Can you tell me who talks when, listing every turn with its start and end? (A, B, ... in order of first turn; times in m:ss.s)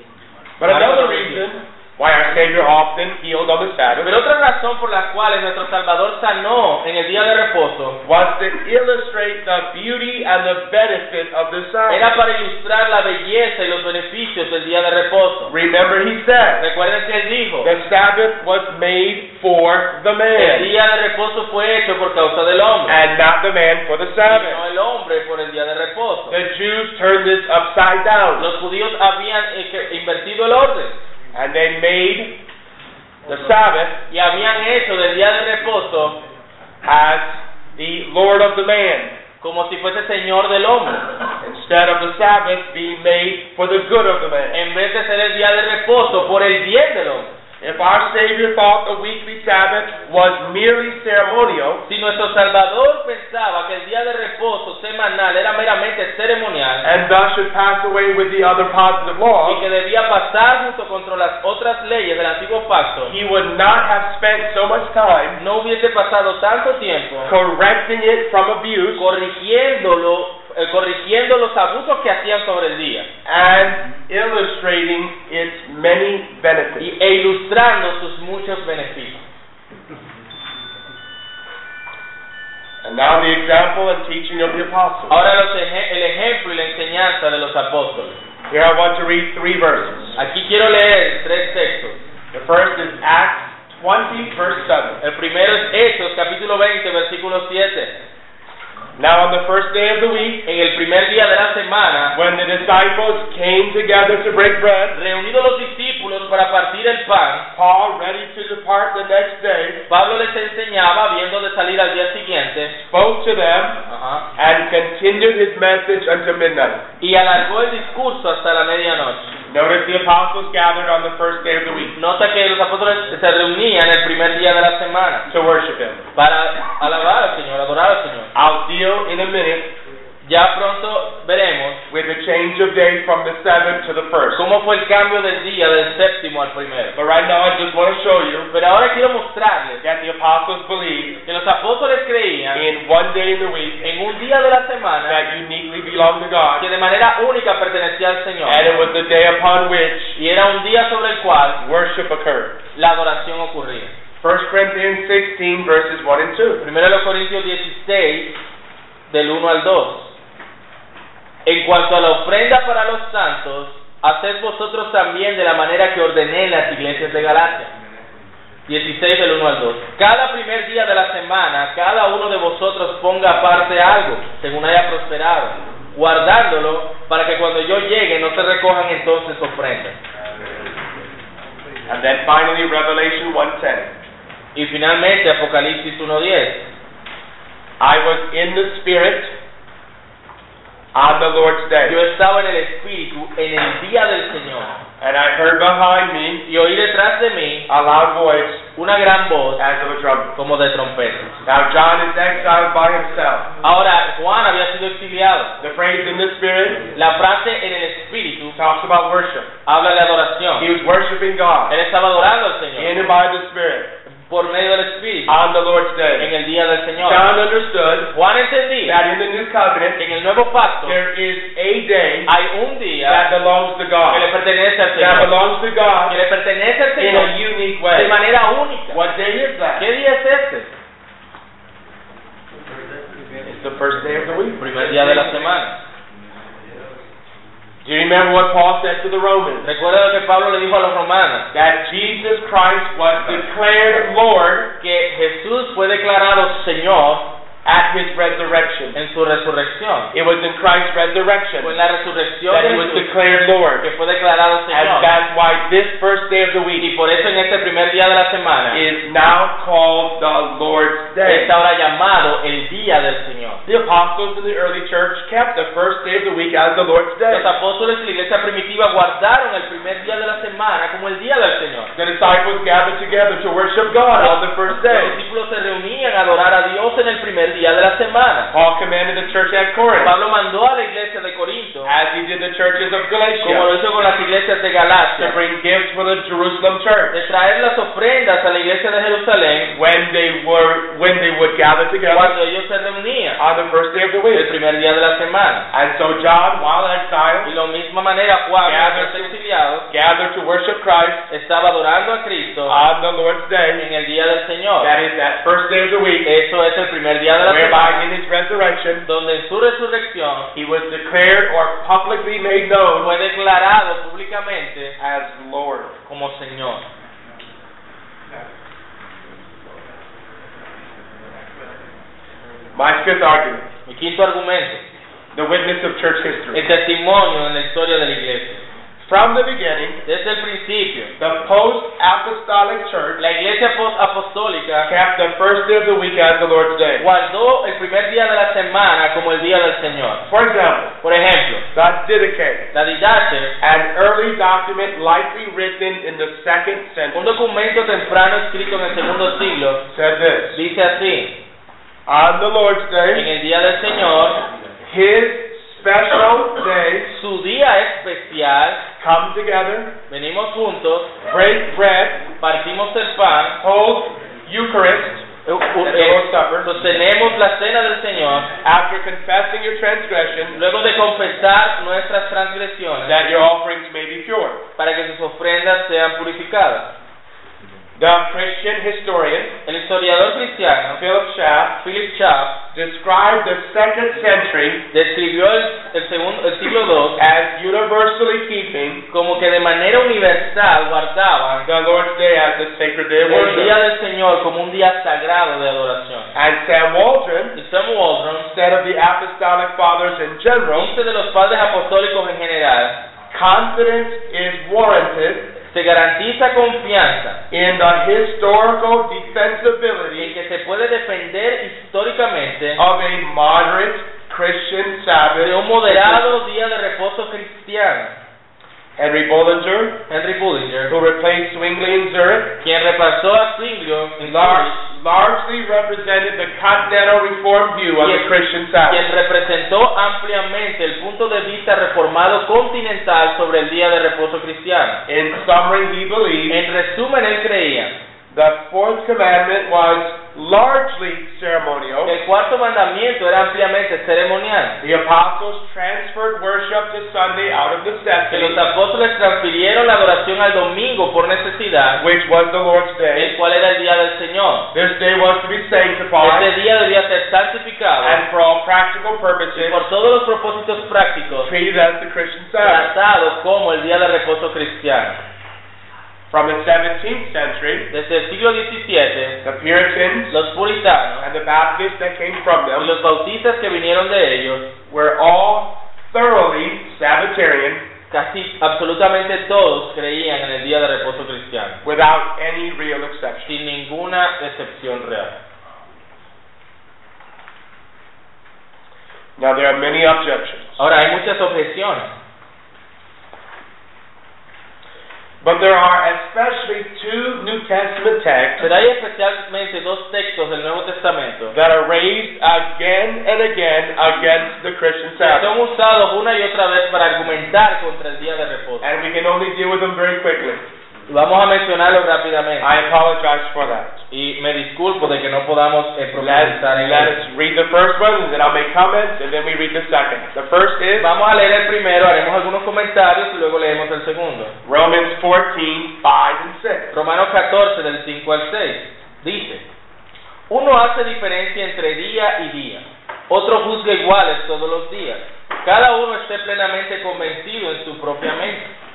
0:00.6-0:04.1 A
0:00.6-0:01.4 B
0:04.0-0:08.0 B
0:08.0-0:12.1 A
0:11.9-0:15.5 B
0:15.5-0:16.6 A
0:16.6-0:17.7 B
0:17.6-0:20.7 A
0:20.4-0:23.0 B
0:22.9-0:24.6 A
0:24.3-0:26.4 B
0:26.3-0:28.5 A
0:28.4-0:31.0 B
0:31.3-0:32.4 A
0:33.2-0:34.0 A
0:34.1-0:36.2 B
0:36.8-0:39.1 A
0:39.4-0:41.1 B
0:41.4-0:44.6 A
0:44.5-0:47.3 B
0:47.6-0:51.8 A
0:51.8-0:56.8 B
0:56.8-0:59.6 A
0:59.4-1:03.1 B
1:03.0-1:05.4 A
1:05.4-1:07.3 B
1:07.2-1:09.1 A
1:09.0-1:13.1 B
1:13.2-1:16.9 A
1:16.8-1:19.2 B
1:22.8-1:25.2 A
1:25.1-1:28.2 B
1:28.5-1:30.2 A
1:30.2-1:32.0 B
1:32.3-1:35.0 A
1:35.0-1:37.9 B
1:39.0-1:40.4 A
1:40.4-1:42.2 B
1:42.1-1:45.0 A
1:44.9-1:47.4 B
1:47.5-1:49.8 A
1:49.9-1:52.7 B
1:52.8-1:53.8 A
1:53.9-1:54.2 B
1:54.4-1:56.8 A
1:57.0-1:59.3 B
1:59.5-2:01.9 A
2:02.0-2:05.3 B
2:05.3-2:06.0 A
2:06.1-2:08.3 B
2:08.3-2:09.7 A
2:10.2-2:11.8 B
2:11.9-2:14.4 A
2:14.3-2:17.0 B
2:17.0-2:18.5 A
2:18.5-2:19.8 B
2:19.8-2:21.2 A
2:21.2-2:22.6 B
2:22.5-2:23.8 A
2:23.8-2:25.2 B
2:25.1-2:26.6 A
2:26.6-2:28.7 B
2:28.4-2:30.2 A
2:30.2-2:31.6 B
2:31.6-2:32.6 A
2:32.7-2:33.9 B
2:34.2-2:36.6 A
2:36.6-2:38.3 B
2:39.1-2:40.1 B
2:41.4-2:47.7 B
2:48.7-2:59.9 B
3:01.9-3:03.9 A
3:04.5-3:06.6 B
3:07.8-3:09.3 A
3:10.9-3:12.0 A
3:11.8-3:14.8 B
3:15.0-3:16.4 A
3:16.4-3:17.7 B
3:17.7-3:18.6 A
3:18.7-3:19.6 B
3:19.6-3:20.3 A
3:20.4-3:21.3 B
3:21.4-3:23.5 A
3:23.6-3:25.5 B
3:25.6-3:26.9 A
3:26.9-3:28.6 B
3:28.5-3:29.5 A
3:29.6-3:30.7 B
3:30.6-3:31.7 A
3:31.7-3:32.9 B
3:32.8-3:33.9 A
3:34.3-3:35.3 B
3:35.3-3:36.3 A
3:36.2-3:37.3 B
3:37.0-3:38.1 A
3:38.1-3:39.0 B
3:38.8-3:40.0 A
3:40.0-3:41.0 B
3:40.8-3:42.3 A
3:42.3-3:43.2 B
3:43.0-3:44.3 A
3:44.1-3:45.3 B
3:45.0-3:46.2 A
3:46.1-3:47.3 B
3:47.0-3:48.2 A
3:47.9-3:49.0 B
3:48.9-3:49.9 A
3:49.8-3:50.7 B
3:53.4-3:55.5 A
3:54.6-3:55.8 B
3:57.8-3:59.7 A
3:59.6-4:01.5 B
4:01.5-4:04.7 A
4:04.8-4:07.3 B
4:07.6-4:09.0 A
4:08.9-4:10.1 B
4:10.1-4:11.8 A
4:11.6-4:13.1 B
4:12.5-4:13.8 A
4:13.8-4:15.1 B
4:14.7-4:16.9 A
4:16.8-4:18.8 B
4:18.7-4:21.5 A
4:21.2-4:23.6 B
4:23.7-4:27.5 A
4:27.3-4:31.9 B
4:31.9-4:35.2 A
4:34.1-4:38.5 B
4:38.5-4:40.1 A
4:40.0-4:41.9 B
4:41.8-4:43.7 A
4:43.4-4:45.4 B
4:45.2-4:47.2 A
4:47.1-4:49.7 B
4:49.7-4:52.4 A
4:52.1-4:53.4 B
4:53.4-4:54.5 A
4:54.3-4:55.7 B
4:55.7-4:57.5 A
4:57.4-4:59.8 B
4:58.6-4:59.3 A
4:59.9-5:01.3 A
5:01.3-5:02.8 B
5:02.6-5:03.8 A
5:03.8-5:04.9 B
5:04.8-5:06.3 A
5:06.2-5:08.0 B
5:07.4-5:09.0 A
5:09.0-5:10.5 B
5:10.5-5:13.1 A
5:13.0-5:14.9 B
5:15.0-5:15.9 A
5:16.1-5:16.8 B
5:22.7-5:23.6 A
5:23.8-5:24.8 B
5:25.3-5:26.6 A
5:26.5-5:28.6 B
5:29.0-5:30.0 A
5:30.0-5:31.1 B
5:31.2-5:33.2 A
5:33.2-5:34.9 B
5:34.8-5:37.0 A
5:37.0-5:40.2 B
5:40.3-5:40.9 A
5:41.0-5:41.6 B
5:41.7-5:42.7 A
5:42.7-5:43.5 B
5:43.6-5:47.3 A
5:47.1-5:49.8 B
5:49.9-5:50.6 A
5:50.5-5:51.3 B
5:52.0-5:53.3 A
5:53.1-5:54.4 B
5:54.8-5:57.1 A
5:57.1-5:58.8 B
5:59.0-5:59.9 A
6:00.1-6:01.1 B
6:01.3-6:02.2 A
6:02.4-6:03.6 B
6:03.6-6:05.2 A
6:05.4-6:08.5 B
6:05.8-6:06.7 A
6:08.6-6:10.6 A
6:10.5-6:13.2 B
6:13.0-6:14.6 A
6:14.8-6:16.9 B
6:18.0-6:19.5 A
6:19.6-6:21.0 B
6:20.9-6:21.8 A
6:21.8-6:22.6 B
6:22.7-6:24.8 A
6:24.9-6:27.2 B
6:27.2-6:29.0 A
6:29.1-6:31.7 B
6:31.6-6:33.8 A
6:33.2-6:36.3 B
6:36.3-6:37.6 A
6:37.5-6:38.5 B
6:38.5-6:40.9 A
6:40.7-6:43.0 B
6:43.3-6:45.5 A
6:45.6-6:47.4 B
6:47.5-6:50.3 A
6:50.2-6:52.8 B
6:52.8-6:56.3 A
6:55.4-6:58.1 B
6:59.0-7:00.0 A
7:00.1-7:00.9 B
7:00.9-7:02.5 A
7:02.6-7:04.8 B
7:04.2-7:09.0 A
7:08.0-7:08.3 B
7:08.8-7:15.0 B
7:15.1-7:16.6 A
7:16.5-7:17.9 B
7:18.3-7:22.2 A
7:22.0-7:24.8 B
7:24.8-7:28.6 A
7:28.3-7:32.0 B
7:32.0-7:33.3 A
7:33.1-7:34.7 B
7:34.7-7:36.5 A
7:36.2-7:38.2 B
7:38.0-7:39.8 A
7:39.5-7:41.5 B
7:41.4-7:42.9 A
7:42.6-7:45.2 B
7:46.3-7:47.9 A
7:47.9-7:49.4 B
7:49.4-7:50.3 A
7:50.3-7:51.2 B
7:51.2-7:52.9 A
7:52.8-7:54.7 B
7:54.9-7:57.8 A
7:58.1-8:01.8 B
8:01.8-8:03.5 A
8:03.4-8:05.3 B
8:09.4-8:10.8 A
8:10.8-8:12.1 B
8:15.4-8:18.7 A
8:18.6-8:21.5 B
8:21.5-8:25.5 A
8:25.2-8:28.9 B
8:28.8-8:30.6 A
8:31.1-8:32.7 B
8:32.6-8:34.0 A
8:34.1-8:37.1 B
8:36.2-8:41.1 A
8:41.0-8:44.5 B
8:44.6-8:46.9 A
8:46.9-8:49.6 B
8:50.5-8:58.7 B